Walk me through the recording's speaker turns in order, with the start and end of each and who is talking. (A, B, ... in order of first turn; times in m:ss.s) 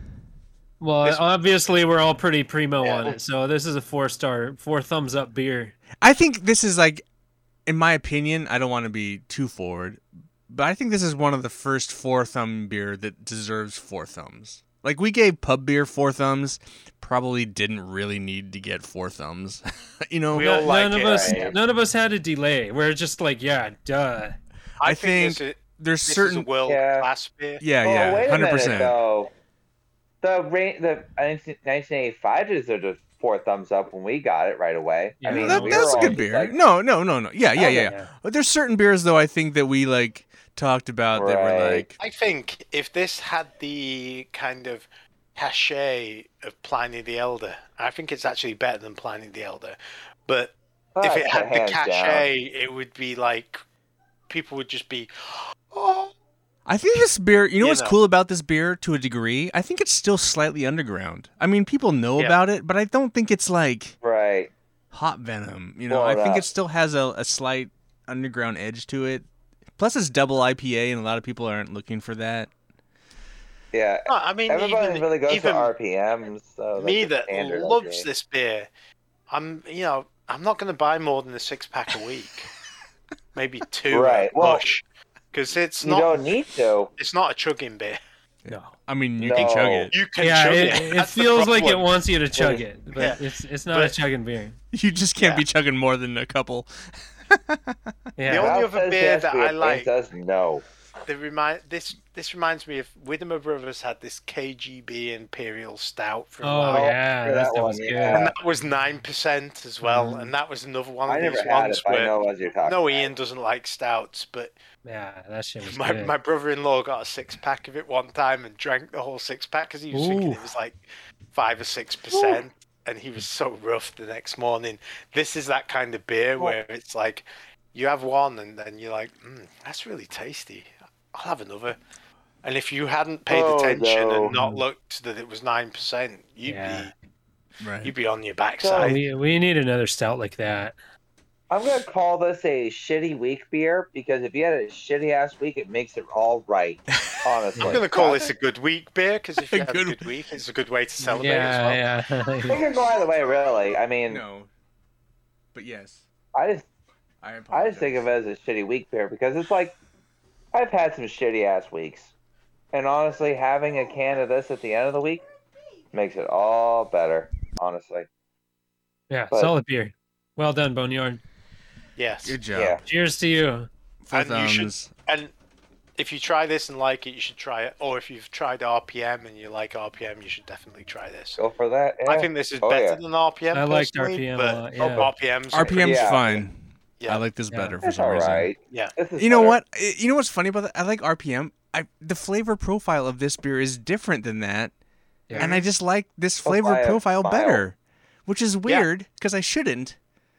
0:00.8-0:05.8 A
0:02.8-0:03.2 B
0:06.0-0:07.0 C
0:07.7-0:20.6 C
0:20.3-0:21.6 D
0:20.4-0:24.4 A
0:21.0-0:21.6 B
0:24.8-0:27.6 D
0:24.8-0:26.5 C
0:26.7-0:27.1 B
0:27.6-0:29.0 C
0:27.8-0:29.3 B
0:30.2-0:36.6 B
0:35.2-0:36.2 A
0:35.3-0:42.0 C
0:37.6-0:37.9 B
0:37.6-0:38.1 A
0:41.1-0:41.9 B
0:42.0-0:53.6 D
0:51.0-0:52.3 B
0:54.3-0:56.1 D
0:56.7-1:04.0 C
0:57.6-0:58.0 D
1:04.0-1:04.5 B
1:04.9-1:09.3 C
1:05.9-1:06.5 B
1:09.8-1:12.5 C
1:13.7-1:18.1 B
1:14.1-1:15.7 D
1:16.8-1:18.7 D
1:19.3-1:22.5 D
1:23.4-1:26.2 D
1:23.9-1:24.6 B
1:25.8-1:26.9 B
1:27.0-1:28.0 D
1:28.4-1:30.0 C
1:28.5-1:28.7 A
1:29.2-1:29.9 B
1:29.4-1:31.9 D
1:30.2-1:34.6 A
1:32.4-1:32.6 B
1:33.0-1:33.2 D
1:33.7-1:34.0 D
1:34.7-1:37.9 C
1:35.2-1:35.4 D
1:38.2-1:38.6 A
1:38.3-1:39.9 D
1:38.3-1:40.6 B
1:41.0-1:46.9 D
1:46.4-1:48.3 A
1:46.7-1:48.3 B
1:48.1-1:52.1 D
1:49.8-1:50.3 A
1:51.1-1:53.1 B
1:52.6-1:54.6 D
1:54.8-1:56.1 A
1:55.6-2:11.8 D
1:59.9-2:00.4 A
2:02.1-2:02.4 B
2:12.4-2:16.9 D
2:13.3-2:14.3 B
2:14.3-2:14.6 A
2:16.5-2:16.9 A
2:17.6-2:17.9 C
2:17.8-2:19.0 D
2:18.6-2:19.0 B
2:18.8-2:20.8 A
2:21.5-2:28.3 B
2:27.6-2:31.8 D
2:29.5-2:30.1 C
2:31.1-2:32.6 A
2:32.5-2:34.2 B
2:34.1-2:34.5 C
2:35.5-2:36.0 C
2:36.3-2:36.7 B
2:37.2-2:38.1 C
2:37.5-2:39.8 B
2:40.5-2:42.1 B
2:42.7-2:45.2 B
2:45.9-2:48.1 B
2:49.1-2:51.2 A
2:52.0-2:52.4 D
2:52.2-2:52.8 C
2:52.5-2:52.8 B
2:52.9-2:53.7 A
2:54.0-2:54.9 C
2:54.1-2:55.3 D
2:56.0-3:01.4 D
3:01.4-3:03.0 B
3:02.1-3:06.2 D
3:03.5-3:05.1 A
3:05.5-3:08.5 C
3:05.7-3:06.4 B
3:07.5-3:07.8 A
3:07.8-3:09.6 B
3:09.2-3:14.7 C
3:15.4-3:15.7 D
3:15.4-3:20.0 C
3:16.4-3:17.6 B